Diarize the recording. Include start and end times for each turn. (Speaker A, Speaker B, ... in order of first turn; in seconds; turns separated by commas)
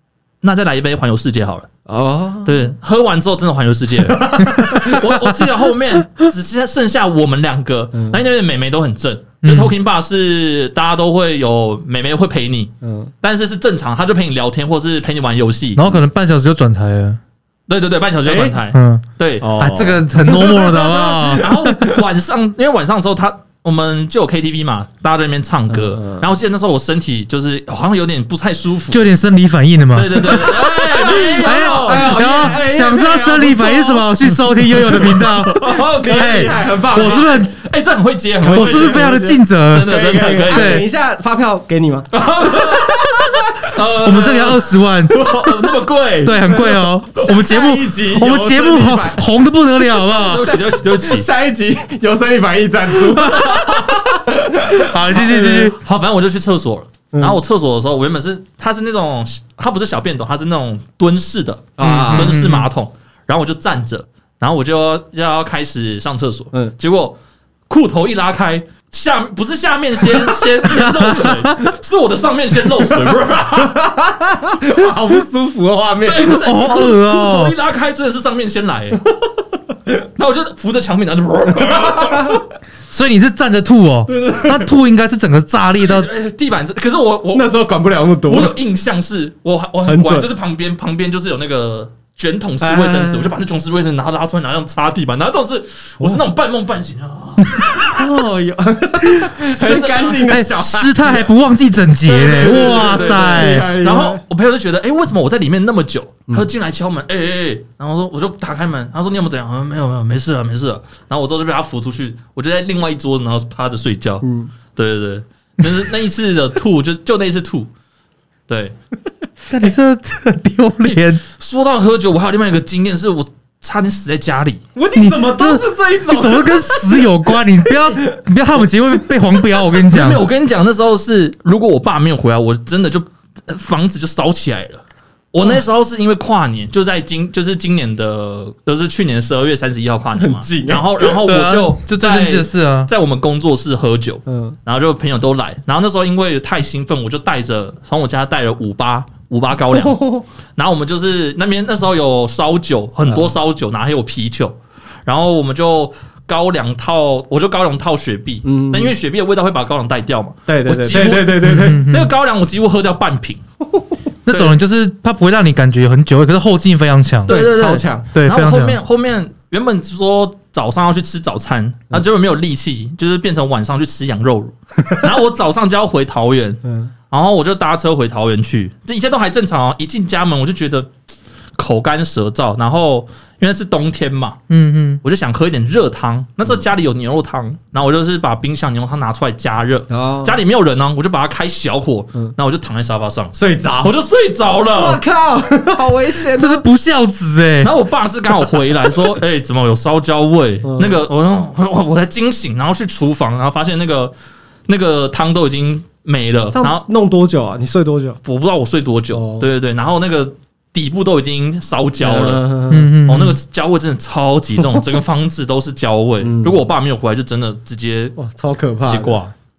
Speaker A: 0.4-1.7, Speaker B: 1.9-2.7, Speaker A: 2.5-12.7, Speaker B: 4.1-5.0, Speaker C: 4.4-5.1, Speaker B: 7.9-8.2, Speaker C: 9.4-9.7, Speaker B: 12.8-13.1, Speaker A: 13.2-15.8, Speaker C: 15.8-17.2, Speaker A: 17.7-19.5, Speaker B: 18.2-18.6, Speaker C: 18.7-19.1, Speaker B: 19.4-21.5, Speaker C: 19.6-21.8, Speaker A: 21.3-29.0, Speaker B: 25.7-26.3, Speaker C: 28.9-37.5, Speaker A: 29.9-32.5, Speaker B: 30.5-34.1, Speaker B: 34.8-37.3, Speaker A: 34.9-40.8, Speaker C: 38.4-39.9, Speaker B: 38.4-43.6, Speaker C: 40.5-40.9, Speaker A: 42.1-46.6, Speaker C: 44.0-45.5, Speaker C: 46.2-50.6, Speaker B: 46.5-49.2, Speaker B: 50.0-55.7, Speaker A: 50.1-51.3, Speaker C: 53.1-53.5, Speaker A: 53.2-54.0, Speaker C: 54.8-55.8, Speaker A: 55.7-67.2, Speaker B: 57.1-57.4, Speaker B: 61.8-62.4, Speaker C: 61.8-62.7, Speaker A: 67.7-73.9, Speaker C: 70.6-71.7, Speaker B: 73.6-76.4, Speaker A: 76.0-79.0, Speaker C: 76.4-77.5, Speaker A: 80.2-82.4, Speaker B: 81.6-82.4, Speaker C: 82.9-86.1, Speaker B: 84.1-84.7, Speaker A: 85.8-87.5, Speaker B: 87.3-88.6, Speaker A: 88.3-98.0, Speaker B: 89.9-90.3, Speaker B: 92.6-93.3, Speaker B: 97.8-101.3, Speaker A: 99.5-100.3, Speaker C: 100.3-103.7, Speaker B: 102.0-104.2, Speaker A: 102.2-114.2, Speaker B: 114.2-114.5, Speaker A: 114.8-117.7, Speaker A: 118.5-118.8, Speaker C: 119.5-121.2, Speaker A: 121.3-124.6, Speaker B: 124.8-128.2, Speaker C: 124.9-130.2, Speaker A: 129.9-150.0, Speaker B: 140.2-141.2, Speaker C: 141.2-142.9, Speaker B: 144.3-144.6, Speaker B: 149.7-150.2, Speaker A: 150.6-163.4, Speaker B: 153.1-153.3, Speaker B: 158.4-158.9, Speaker B: 160.5-161.8, Speaker C: 161.4-162.1, Speaker C: 164.3-167.5, Speaker B: 167.3-168.1, Speaker A: 167.3-180.9, Speaker C: 168.1-168.8, Speaker B: 176.6-176.9, Speaker A: 181.6-184.4, Speaker C: 184.5-185.0, Speaker A: 185.0-195.0, Speaker B: 189.9-190.4, Speaker B: 193.3-194.0, Speaker B: 194.7-196.6, Speaker C: 196.3-197.7, Speaker A: 197.6-204.1, Speaker B: 200.6-201.0, Speaker A: 204.7-206.8, Speaker B: 206.5-208.2, Speaker A: 208.2-212.5, Speaker B: 209.1-209.5, Speaker B: 212.0-212.9, Speaker C: 212.7-213.4, Speaker A: 213.1-218.2, Speaker B: 216.2-216.6, Speaker B: 218.2-219.2, Speaker A: 218.8-219.3